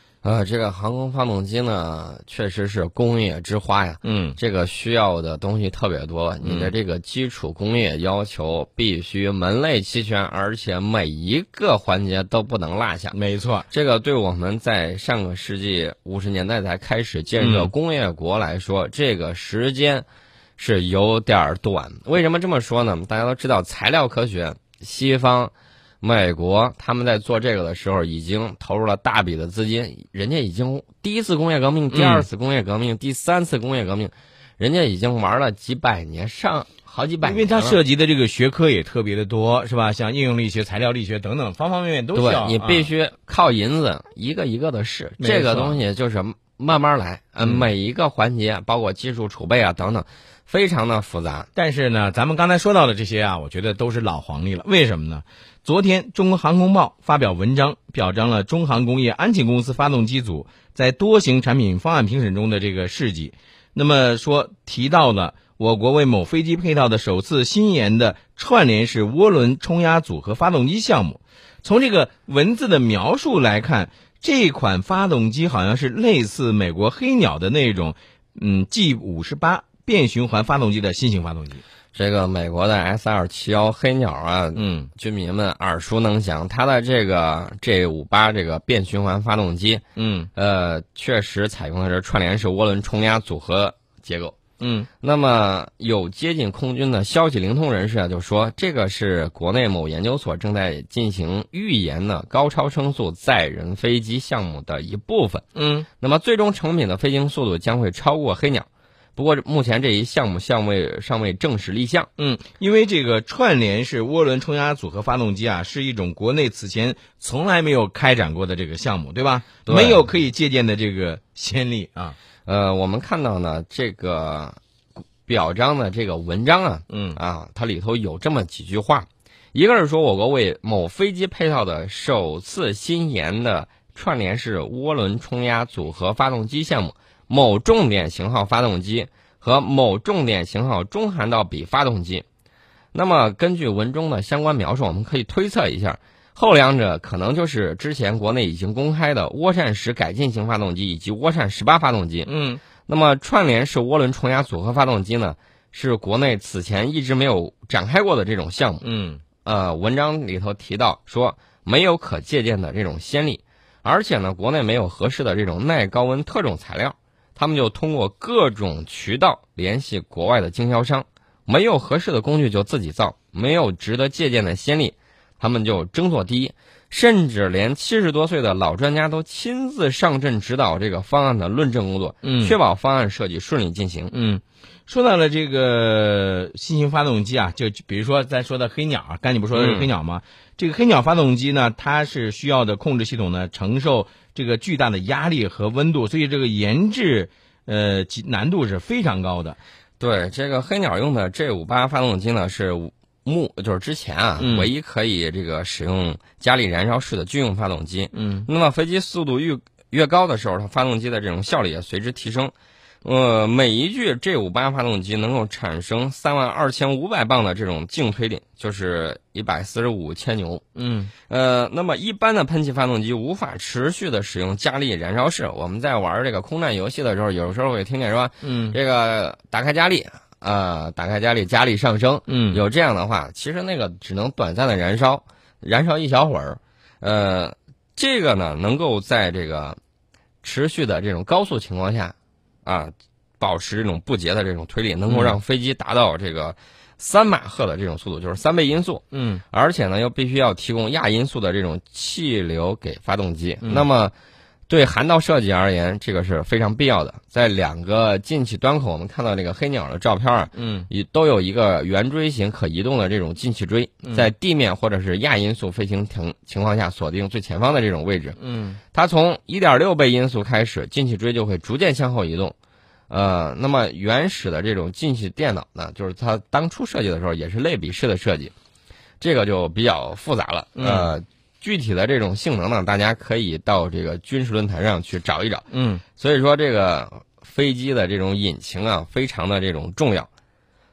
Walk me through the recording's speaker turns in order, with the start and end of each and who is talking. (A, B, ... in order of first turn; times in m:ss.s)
0:00.2-0:13.2 A
0:04.0-0:04.4 B
0:06.4-0:06.7 B
0:13.1-0:13.7 B
0:13.7-0:20.1 A
0:17.4-0:17.7 B
0:20.6-0:37.8 A
0:31.9-0:32.3 B
0:37.2-0:42.9 B
0:42.2-0:51.5 A
0:45.2-0:45.8 B
0:47.4-0:47.7 B
0:51.6-1:21.6 B
1:21.9-1:29.8 A
1:24.6-1:24.9 B
1:30.0-1:30.3 B
1:30.4-1:34.4 A
1:34.6-1:34.9 B
1:35.0-1:45.4 A
1:45.6-1:45.9 B
1:46.0-1:52.1 A
1:52.2-2:02.2 B
1:59.7-2:00.1 A
2:02.5-2:04.6 A
2:05.3-2:22.2 A
2:06.9-2:07.2 B
2:22.9-2:32.3 A
2:32.2-2:32.6 B
2:32.9-2:38.8 A
2:38.8-2:39.2 B
2:39.4-3:04.1 A
3:02.2-3:02.6 B
3:04.1-3:19.6 B
3:09.5-3:09.9 A
3:20.0-3:40.6 A
3:24.4-3:24.7 B
3:28.1-3:28.5 B
3:40.8-3:41.1 B
3:41.3-3:59.8 A
3:48.4-3:48.8 B
3:52.3-3:52.6 B
4:00.4-4:02.1 A
4:02.6-4:14.1 A
4:05.1-4:05.4 B
4:09.1-4:09.4 B
4:14.7-4:28.4 A
4:20.6-4:20.9 B
4:24.0-4:24.3 B
4:28.4-4:28.8 B
4:28.9-4:32.6 A
4:33.1-4:38.5 A
4:39.2-4:50.3 A
4:40.8-4:41.1 B
4:45.7-4:46.0 B